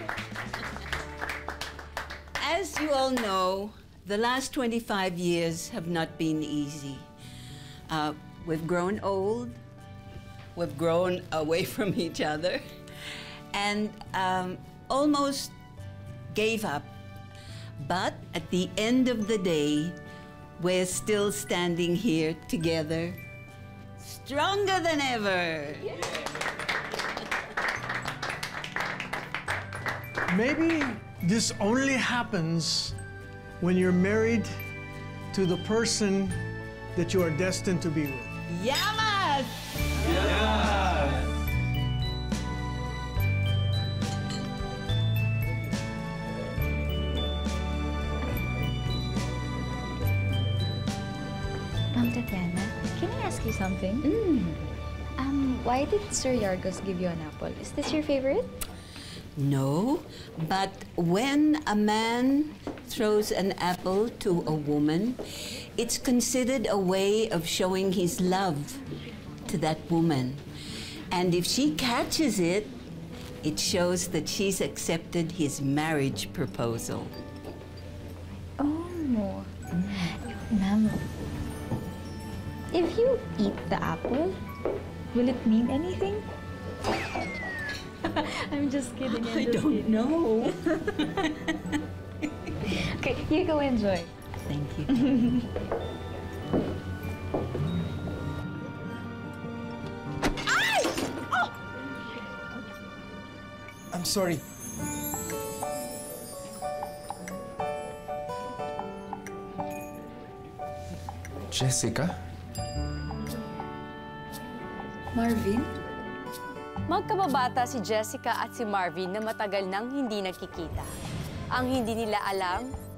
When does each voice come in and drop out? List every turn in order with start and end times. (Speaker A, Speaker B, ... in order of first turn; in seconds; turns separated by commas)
Speaker A: 2.4-7.1, Speaker A: 7.9-9.6, Speaker A: 10.6-12.6, Speaker A: 13.5-15.6, Speaker A: 16.3-16.9, Speaker A: 17.8-20.0, Speaker A: 20.6-23.2, Speaker A: 24.0-26.0, Speaker B: 30.3-32.9, Speaker B: 33.6-34.5, Speaker B: 35.3-36.4, Speaker B: 37.0-38.3, Speaker A: 38.5-40.8, Speaker C: 40.2-41.2, Speaker D: 51.9-54.6, Speaker A: 54.1-54.4, Speaker D: 55.2-58.5, Speaker A: 59.4-65.2, Speaker A: 65.8-68.8, Speaker A: 69.5-70.4, Speaker A: 71.1-72.8, Speaker A: 73.4-77.2, Speaker D: 78.6-79.5, Speaker D: 80.2-81.0, Speaker D: 82.7-84.4, Speaker D: 85.1-86.2, Speaker D: 88.1-90.5, Speaker A: 89.1-90.5, Speaker D: 92.7-94.1, Speaker A: 94.5-94.9, Speaker D: 95.0-95.4, Speaker C: 103.9-104.4, Speaker C: 111.5-112.1, Speaker D: 115.1-115.7, Speaker E: 116.9-120.9, Speaker E: 121.5-122.7